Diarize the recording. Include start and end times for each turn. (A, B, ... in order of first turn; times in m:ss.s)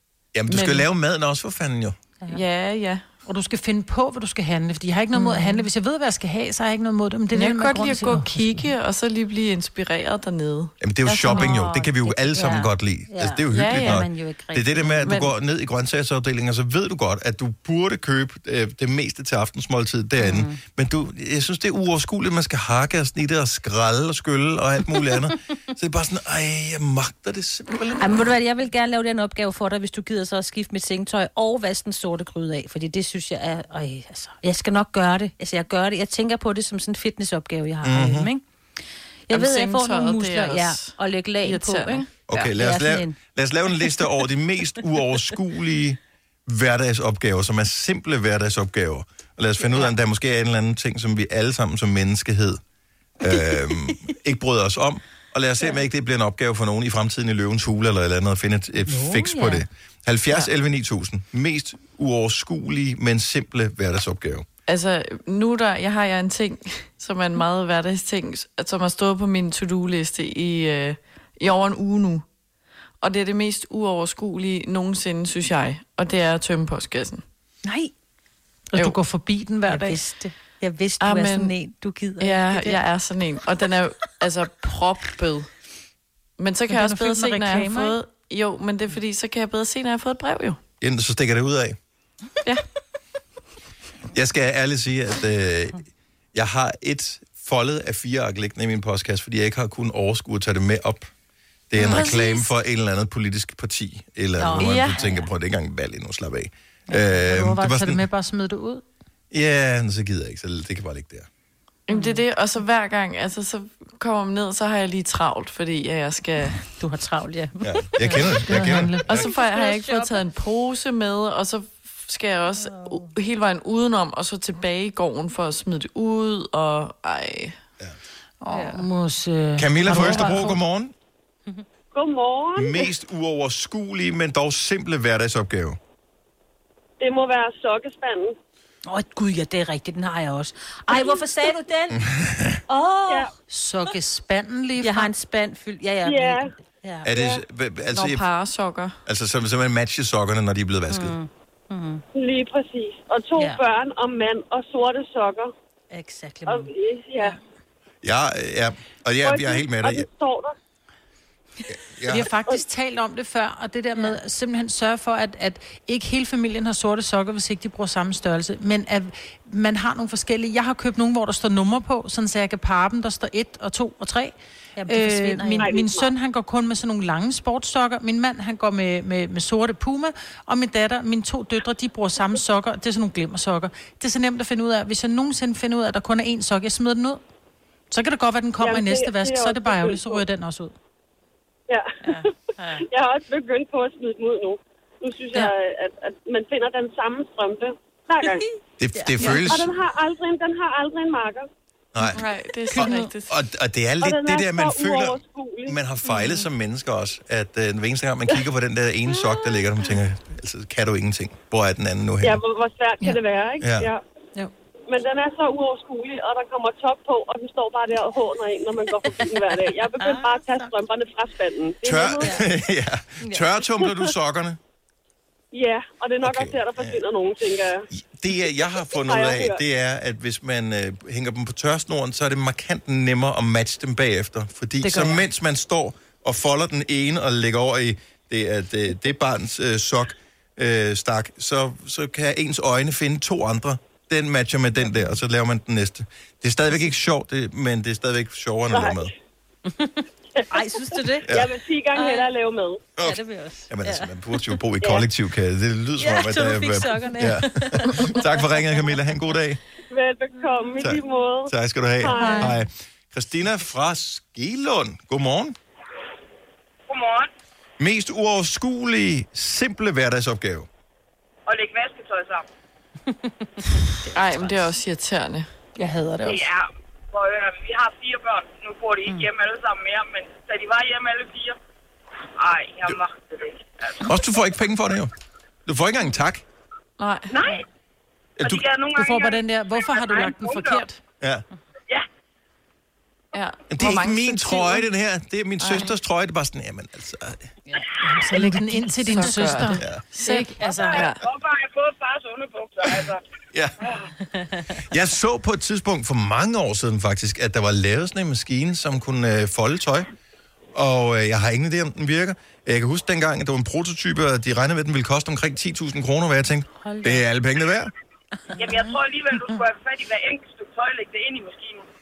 0:00.3-0:02.0 A
0:00.5-0:00.9 B
0:02.3-0:03.0 B
0:03.2-0:08.6 C
0:05.1-0:05.5 B
0:07.3-0:11.9 B
0:10.8-0:28.2 A
0:11.2-0:15.2 D
0:13.5-0:14.1 B
0:15.0-0:15.3 B
0:20.2-0:20.6 D
0:28.0-0:38.4 D
0:37.8-0:38.3 A
0:39.3-0:43.2 D
0:39.3-0:42.5 B
0:42.3-0:52.6 A
0:49.6-0:49.9 D
0:53.2-1:04.4 A
0:58.9-0:59.6 D
1:04.7-1:12.2 B
1:13.0-1:17.2 B
1:17.6-1:17.9 D
1:18.7-1:20.0 C
1:19.7-1:22.8 D
1:21.0-1:21.6 B
1:22.2-1:25.5 B
1:26.4-1:30.6 B
1:26.7-1:28.0 C
1:30.8-1:31.8 A
1:34.1-1:35.8 A
1:36.3-1:41.1 A
1:41.7-1:48.0 A
1:41.8-1:42.2 D
1:41.8-1:42.5 B
1:44.4-1:45.3 D
1:44.6-1:45.0 B
1:47.1-1:48.8 C
1:49.3-1:51.3 A
1:51.9-1:56.6 B
1:51.9-1:52.2 D
1:56.8-1:58.4 D
1:57.6-1:59.2 A
1:58.4-1:59.1 C
1:59.1-2:07.6 B
1:59.1-2:00.2 D
2:02.6-2:03.1 D
2:08.4-2:10.6 C
2:08.5-2:08.8 D
2:09.6-2:10.9 A
2:11.9-2:12.9 E
2:12.6-2:15.8 A
2:17.0-2:18.3 E
2:18.8-2:22.0 D
2:20.9-2:21.2 E
2:22.0-2:22.6 A
2:22.7-2:23.3 D
2:23.5-2:25.1 C
2:24.8-2:27.2 D
2:26.0-2:26.5 E
2:27.0-2:28.2 A
2:27.1-2:27.4 E
2:27.9-2:29.0 B
2:29.1-2:31.2 A
2:30.9-2:32.0 D
2:32.1-2:35.5 E
2:35.9-2:37.4 D
2:36.4-2:37.4 E
2:38.0-2:40.1 A
2:39.2-2:40.5 E
2:41.7-2:42.3 A
2:42.1-2:54.3 C
2:54.8-2:55.7 D
2:54.9-3:07.2 C
2:55.6-2:56.1 E
3:07.9-3:10.7 C
3:08.6-3:10.2 E
3:11.7-3:18.4 E
3:12.1-3:12.8 D
3:18.8-3:19.8 A
3:18.9-3:19.6 D
3:19.3-3:21.5 E
3:21.9-3:22.2 A
3:22.1-3:23.3 B
3:22.7-3:23.1 D
3:22.7-3:32.4 A
3:24.0-3:25.8 E
3:26.1-3:26.4 D
3:32.2-3:34.0 E
3:33.6-3:33.9 A
3:34.9-3:42.4 E
3:40.0-3:40.7 D
3:41.8-3:44.6 A
3:42.2-3:42.4 D
3:43.2-3:43.6 D
3:45.5-3:47.9 E
3:46.2-3:47.0 A
3:47.9-4:09.1 A
3:48.9-3:49.6 E
3:54.8-3:55.2 C
4:08.7-4:09.1 E
4:09.7-4:11.4 D
4:10.4-4:12.8 E
4:11.2-4:11.5 A
4:11.9-4:12.3 D
4:13.0-4:14.6 D
4:13.0-4:19.6 A
4:16.0-4:18.6 D
4:19.9-4:22.5 E
4:20.4-4:20.6 D
4:20.8-4:25.6 A
4:22.1-4:22.6 D
4:26.9-4:27.3 F
4:27.8-4:30.7 A
4:31.5-4:32.4 F
4:34.0-4:34.6 D
4:34.1-4:35.5 B
4:35.8-4:36.4 C
4:36.2-4:41.6 F
4:42.4-4:44.0 F
4:44.0-4:45.1 A
4:45.6-4:46.4 A
4:47.0-4:47.3 B
4:47.3-4:47.6 F
4:48.4-4:48.6 A
4:48.4-4:50.9 F
4:48.9-4:51.0 C
4:53.3-4:54.9 B
4:53.7-4:57.5 A
4:55.6-4:55.9 B
4:58.0-5:01.1 C
4:58.4-5:01.2 B
5:00.6-5:03.2 F
5:03.5-5:03.8 A
5:04.9-5:10.1 A
5:10.7-5:17.9 A
5:16.8-5:17.2 D
5:18.6-5:21.8 F
5:18.6-5:18.9 D